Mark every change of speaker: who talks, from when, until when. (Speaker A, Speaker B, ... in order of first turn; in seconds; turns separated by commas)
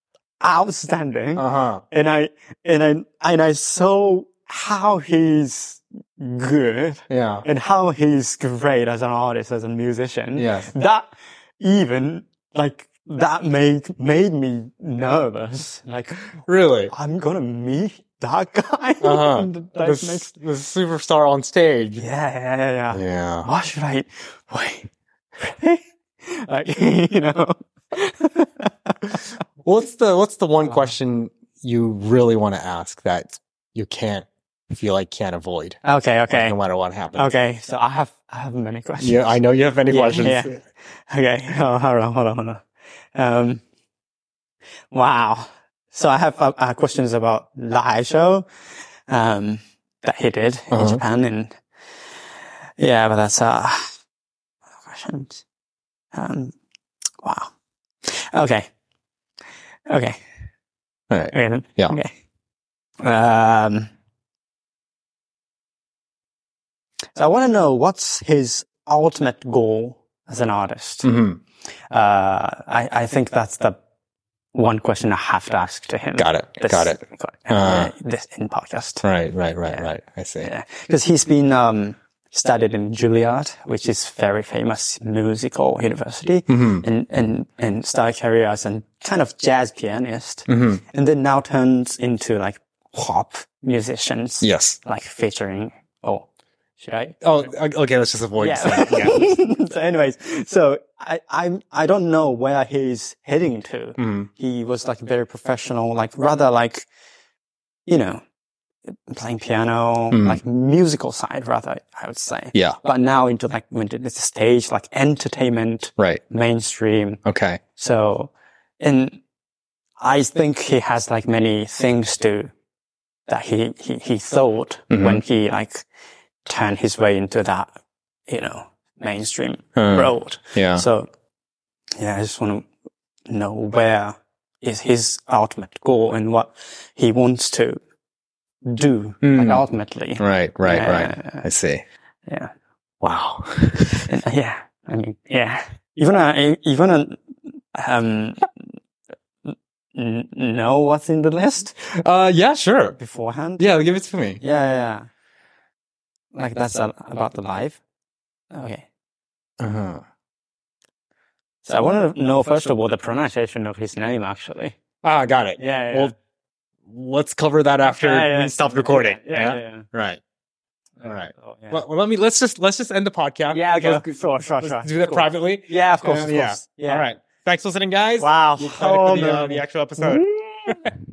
Speaker A: 0.4-11.1, Speaker B: 1.4-1.8, Speaker B: 7.1-7.5, Speaker B: 10.4-10.7, Speaker A: 11.6-20.3, Speaker B: 16.5-16.9, Speaker B: 19.0-22.0, Speaker A: 22.0-24.9, Speaker B: 22.9-23.5, Speaker A: 25.4-29.4, Speaker B: 29.6-35.8, Speaker A: 30.6-30.9, Speaker A: 35.8-36.6, Speaker B: 36.3-37.3, Speaker A: 37.1-39.3, Speaker B: 39.0-40.6, Speaker A: 39.9-42.6, Speaker A: 43.1-43.6, Speaker A: 44.9-48.5, Speaker A: 49.1-51.5, Speaker B: 50.7-51.0, Speaker A: 52.8-53.8, Speaker A: 54.8-55.4, Speaker A: 56.1-56.5, Speaker A: 57.2-57.5, Speaker A: 58.1-58.7, Speaker A: 59.9-60.1, Speaker B: 61.1-62.0, Speaker A: 61.3-62.1, Speaker A: 63.0-63.9, Speaker A: 67.2-71.1, Speaker B: 71.0-71.4, Speaker A: 71.9-73.8, Speaker A: 74.5-79.0, Speaker B: 76.2-77.9, Speaker B: 79.0-80.5, Speaker A: 79.7-79.9, Speaker A: 80.4-96.3, Speaker B: 86.5-86.8, Speaker B: 90.5-90.8, Speaker B: 94.4-94.8, Speaker A: 96.8-97.2, Speaker B: 97.2-99.2, Speaker A: 98.4-106.9, Speaker B: 104.0-104.3, Speaker A: 107.9-108.2, Speaker A: 109.1-117.2, Speaker B: 110.1-110.4, Speaker B: 117.2-117.6, Speaker A: 117.8-119.2, Speaker A: 120.0-122.5, Speaker A: 123.3-125.8, Speaker B: 124.9-125.2, Speaker A: 126.5-127.7, Speaker A: 128.3-131.1, Speaker B: 129.8-130.8, Speaker A: 132.0-132.7, Speaker A: 133.3-137.8, Speaker A: 138.6-141.4, Speaker B: 139.2-139.6, Speaker B: 140.2-141.8, Speaker B: 143.0-144.1, Speaker A: 144.1-148.6, Speaker A: 149.5-151.7, Speaker B: 151.8-153.0, Speaker A: 153.0-153.6, Speaker B: 153.6-154.4, Speaker A: 154.4-155.1, Speaker A: 156.3-157.8, Speaker A: 158.5-158.8, Speaker B: 159.6-160.0, Speaker A: 161.6-164.8, Speaker B: 165.0-166.1, Speaker A: 165.6-166.1, Speaker B: 166.9-170.2, Speaker A: 167.9-169.8, Speaker B: 171.0-180.9, Speaker A: 171.3-171.8, Speaker A: 173.5-177.1, Speaker A: 178.2-180.9